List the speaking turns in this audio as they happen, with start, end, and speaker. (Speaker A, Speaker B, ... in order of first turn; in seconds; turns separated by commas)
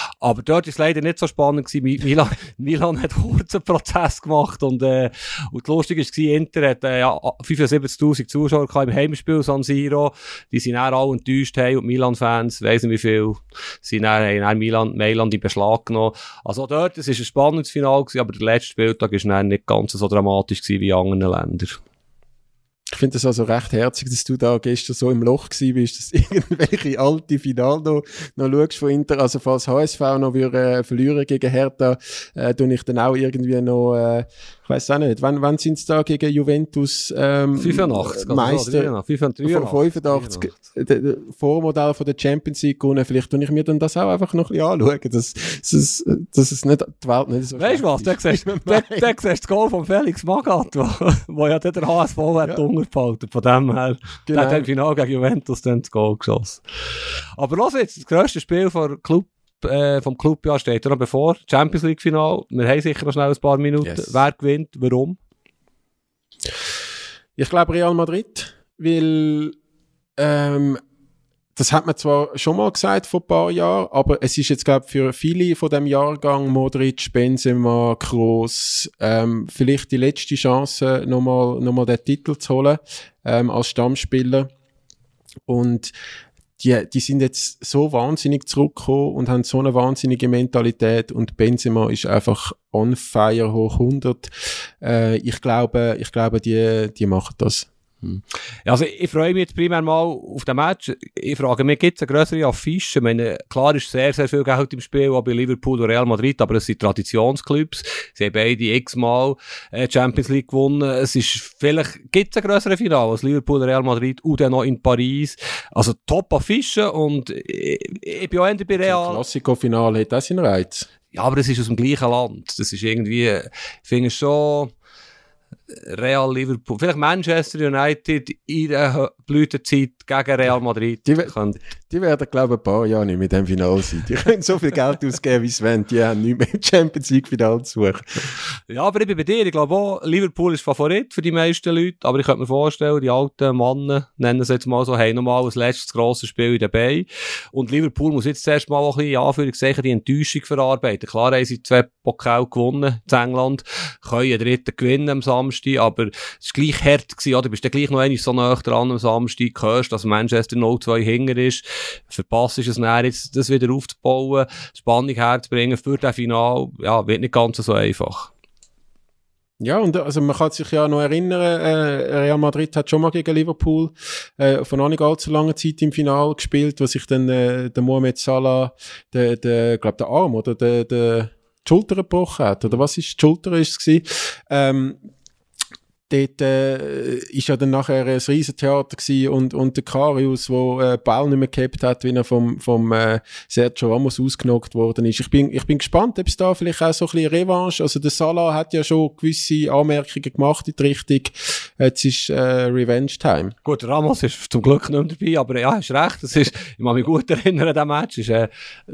Speaker A: 0.2-21.8, Speaker B: 22.9-49.1, Speaker A: 37.5-40.6, Speaker A: 47.5-56.6, Speaker B: 54.3-54.7, Speaker A: 57.4-65.2, Speaker B: 63.8-64.2, Speaker B: 67.4-69.5, Speaker B: 70.2-70.8, Speaker B: 71.5-84.5, Speaker B: 85.5-85.9, Speaker B: 86.6-97.7, Speaker A: 98.0-119.2, Speaker B: 118.8-120.9, Speaker A: 121.1-124.7, Speaker A: 125.9-131.6, Speaker B: 131.1-131.3, Speaker B: 131.9-138.2, Speaker A: 138.7-168.3, Speaker B: 169.6-185.0, Speaker B: 186.1-203.5, Speaker A: 203.6-208.5